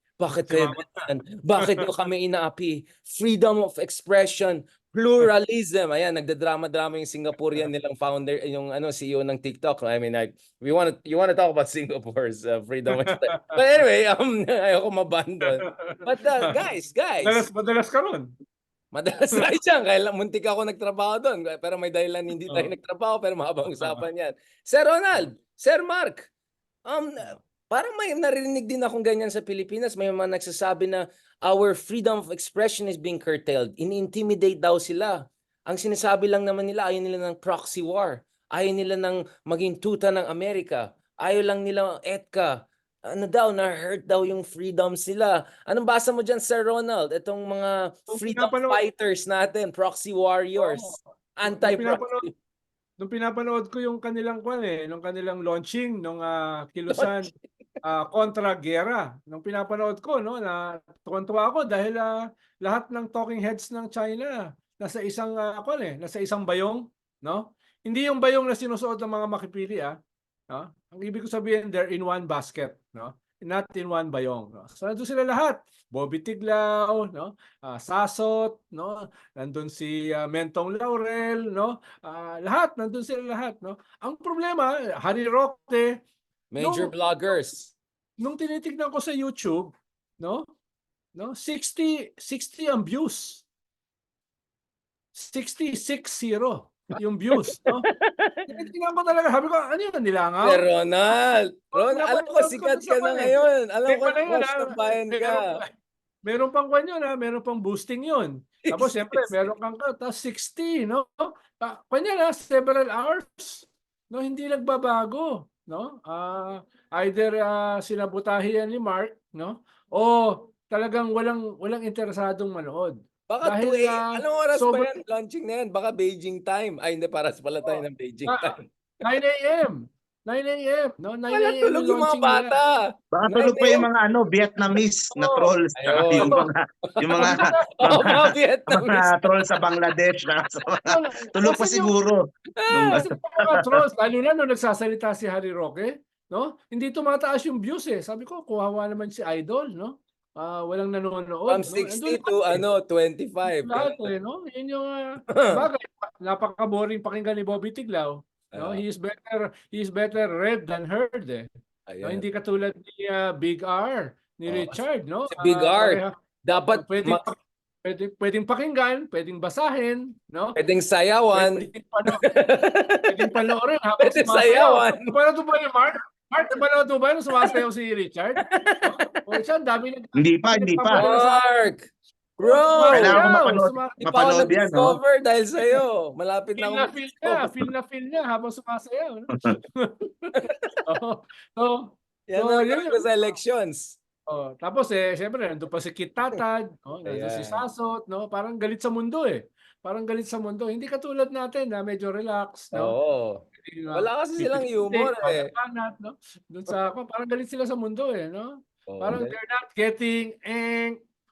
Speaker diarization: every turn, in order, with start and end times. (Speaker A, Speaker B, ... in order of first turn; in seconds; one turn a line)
Speaker A: 0.2-17.4
Speaker B: 0.3-1.1
Speaker B: 13.0-13.4
Speaker B: 15.6-15.9
Speaker B: 17.2-18.3
Speaker A: 18.9-26.3
Speaker B: 22.5-22.7
Speaker B: 23.8-24.0
Speaker A: 26.8-52.3
Speaker B: 48.1-48.8
Speaker B: 50.6-52.3
Speaker B: 53.0-57.3
Speaker A: 56.9-57.4
Speaker B: 57.8-69.9
Speaker B: 70.5-85.9
Speaker A: 86.5-87.7
Speaker B: 86.6-87.3
Speaker B: 88.2-90.5
Speaker B: 91.1-93.4
Speaker B: 95.1-97.8
Speaker A: 97.4-98.4
Speaker B: 98.5-100.6
Speaker A: 100.4-105.6
Speaker B: 101.7-105.7
Speaker B: 106.2-124.9
Speaker A: 108.7-109.5
Speaker A: 123.3-128.6
Speaker B: 127.6-132.6
Speaker A: 131.3-133.9
Speaker C: 133.1-143.8
Speaker B: 135.1-135.5
Speaker A: 135.8-139.5
Speaker B: 136.1-136.4
Speaker B: 137.1-137.6
Speaker B: 140.8-141.9
Speaker A: 142.6-143.0
Speaker B: 142.8-152.6
Speaker A: 151.5-154.1
Speaker B: 153.4-161.5
Speaker A: 155.3-155.6
Speaker A: 158.5-158.8
Speaker A: 161.9-162.2
Speaker B: 162.0-166.1
Speaker A: 164.5-164.8
Speaker A: 165.3-167.2
Speaker B: 166.7-170.6
Speaker A: 170.6-171.7
Speaker B: 171.3-172.2
Speaker A: 172.2-173.3
Speaker B: 173.1-181.7
Speaker A: 174.0-175.2
Speaker A: 178.4-179.2
Speaker C: 180.2-181.0
Speaker A: 180.9-181.9
Speaker A: 182.4-183.2
Speaker B: 182.4-184.5
Speaker C: 182.9-185.0
Speaker A: 184.0-187.5
Speaker B: 186.6-193.1
Speaker A: 190.4-190.8
Speaker A: 192.3-194.0
Speaker B: 194.3-202.9
Speaker A: 197.0-197.6
Speaker A: 202.7-205.5
Speaker B: 203.6-210.9
Speaker A: 208.9-209.3